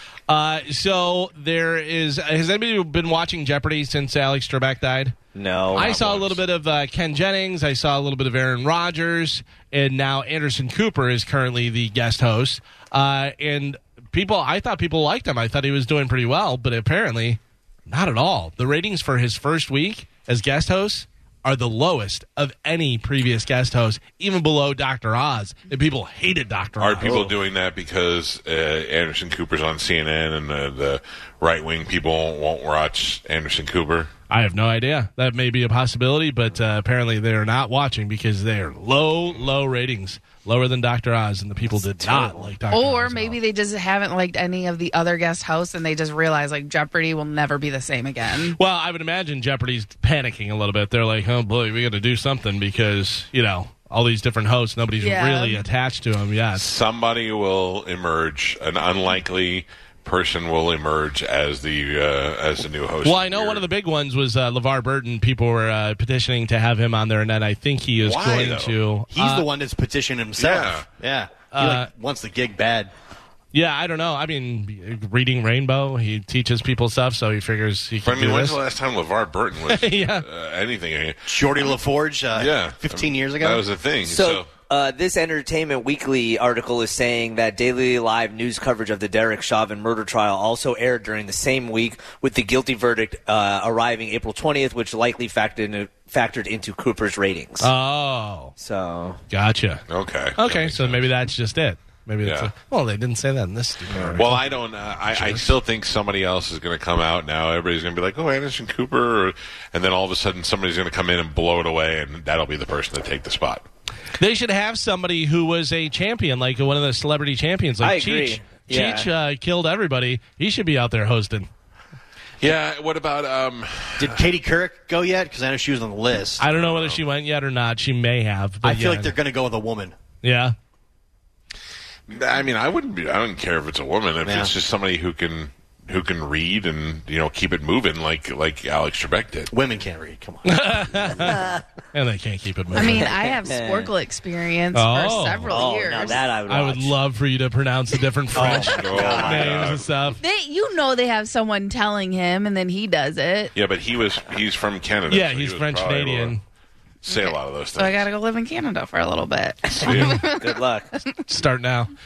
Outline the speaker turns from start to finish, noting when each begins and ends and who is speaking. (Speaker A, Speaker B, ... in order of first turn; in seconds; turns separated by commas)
Speaker A: 0.3-5.1, Speaker B: 5.3-5.9, Speaker C: 5.7-6.4, Speaker A: 5.7-27.3, Speaker C: 26.8-34.1, Speaker A: 34.3-43.4, Speaker B: 41.9-42.5, Speaker D: 42.7-48.6, Speaker A: 48.5-56.6, Speaker D: 55.0-55.7, Speaker C: 56.5-63.6, Speaker A: 63.0-69.5, Speaker C: 68.0-68.8, Speaker E: 69.1-72.9, Speaker C: 70.4-70.8, Speaker A: 71.5-71.9, Speaker A: 73.5-78.6, Speaker C: 78.0-81.3, Speaker A: 79.7-80.2, Speaker E: 81.3-83.6, Speaker C: 82.3-84.5, Speaker B: 84.0-97.7, Speaker A: 97.6-98.5, Speaker B: 98.6-99.2, Speaker A: 99.3-99.8, Speaker C: 99.9-101.0, Speaker A: 100.4-104.5, Speaker C: 102.2-102.5, Speaker C: 104.0-113.7, Speaker A: 105.1-105.5, Speaker A: 114.2-121.5, Speaker B: 117.8-119.1, Speaker C: 122.4-124.2, Speaker E: 124.0-126.4, Speaker A: 126.4-129.1, Speaker C: 126.5-127.0, Speaker E: 128.6-129.9, Speaker A: 130.2-130.6, Speaker C: 132.1-139.5, Speaker E: 134.2-134.5, Speaker E: 139.5-141.2, Speaker A: 140.4-143.1, Speaker B: 141.2-141.6, Speaker D: 142.7-146.2, Speaker B: 142.8-143.9, Speaker A: 144.7-145.6, Speaker B: 145.5-146.9, Speaker A: 146.5-150.2, Speaker B: 148.3-149.6, Speaker C: 148.4-149.9, Speaker D: 150.2-153.5, Speaker C: 153.6-156.4, Speaker A: 155.1-156.4, Speaker C: 157.0-158.1, Speaker D: 157.1-160.6, Speaker C: 159.7-160.3, Speaker A: 159.9-160.2, Speaker B: 160.4-160.9, Speaker A: 161.3-161.9